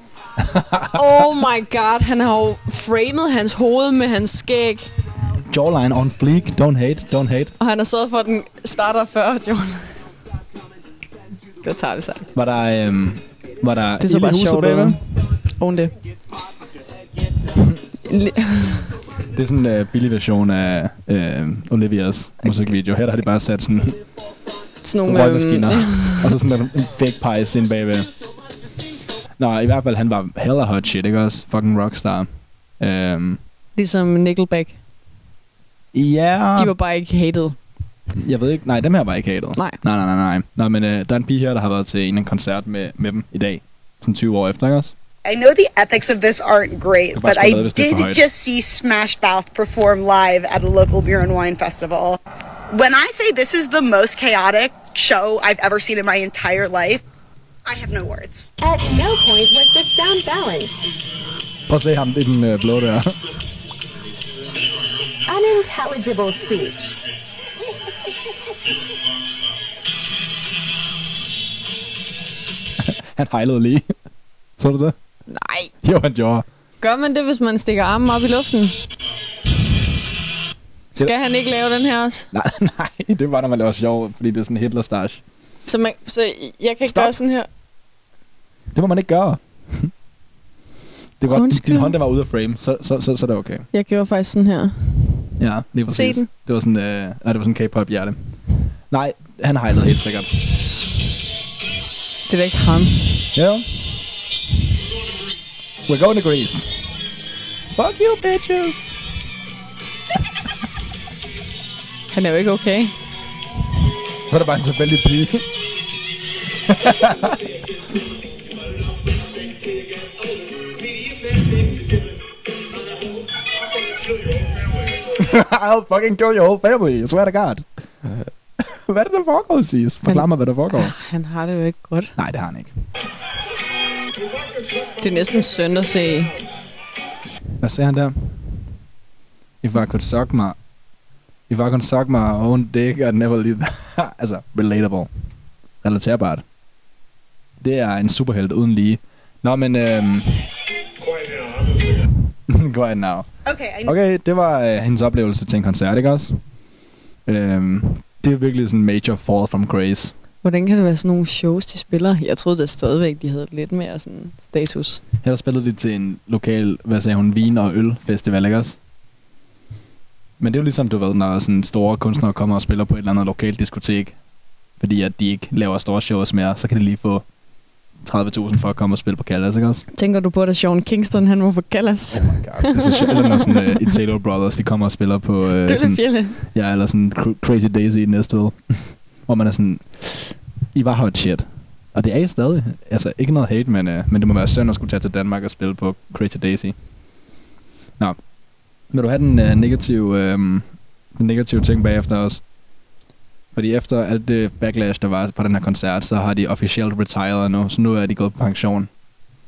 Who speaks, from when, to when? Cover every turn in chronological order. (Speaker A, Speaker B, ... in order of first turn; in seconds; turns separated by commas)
Speaker A: 0.4-1.0, Speaker B: 0.9-4.9, Speaker A: 5.5-7.5, Speaker B: 7.6-10.0, Speaker B: 11.6-12.3, Speaker A: 12.3-15.0, Speaker B: 14.0-15.9, Speaker B: 18.0-19.0, Speaker A: 19.4-24.0, Speaker B: 22.4-22.8, Speaker B: 24.8-26.4, Speaker A: 25.1-28.1, Speaker A: 29.4-33.4, Speaker B: 33.8-34.8, Speaker A: 35.9-36.7, Speaker B: 36.6-37.6, Speaker A: 38.2-44.9, Speaker C: 45.2-52.2, Speaker A: 47.1-48.2, Speaker C: 52.7-57.0, Speaker C: 57.6-58.5, Speaker D: 58.6-60.8, Speaker A: 61.7-63.2, Speaker D: 65.2-67.0, Speaker A: 72.8-73.9, Speaker A: 74.6-75.0, Speaker B: 75.3-75.7, Speaker A: 75.8-76.5, Speaker B: 76.8-78.8, Speaker B: 80.9-82.3, Speaker A: 82.3-85.2, Speaker B: 85.7-87.5, Speaker A: 86.9-87.1, Speaker A: 88.7-89.9, Speaker A: 91.2-93.7, Speaker B: 91.3-92.0, Speaker B: 93.7-95.3, Speaker A: 95.4-98.2, Speaker B: 95.9-96.3, Speaker A: 98.9-100.3, Speaker B: 102.3-103.2, Speaker A: 103.3-103.7, Speaker A: 105.9-106.7, Speaker A: 107.8-109.0, Speaker B: 112.1-112.9, Speaker A: 114.3-115.5, Speaker A: 116.7-117.4, Speaker A: 125.2-127.7, Speaker A: 128.6-130.9, Speaker B: 130.1-132.2, Speaker A: 132.2-132.7, Speaker B: 135.0-136.3, Speaker A: 137.6-138.5, Speaker A: 139.6-140.6, Speaker A: 141.5-145.1, Speaker A: 145.8-146.4, Speaker A: 147.6-150.5, Speaker A: 152.5-153.3, Speaker C: 153.5-153.9, Speaker A: 153.8-156.4, Speaker A: 157.3-160.2, Speaker B: 160.4-165.0, Speaker A: 165.2-168.8, Speaker A: 170.4-174.2, Speaker A: 174.8-177.2, Speaker A: 178.1-179.8, Speaker B: 179.9-183.8, Speaker A: 182.1-196.8, Speaker B: 185.7-186.4, Speaker A: 198.9-202.4, Speaker A: 203.5-208.9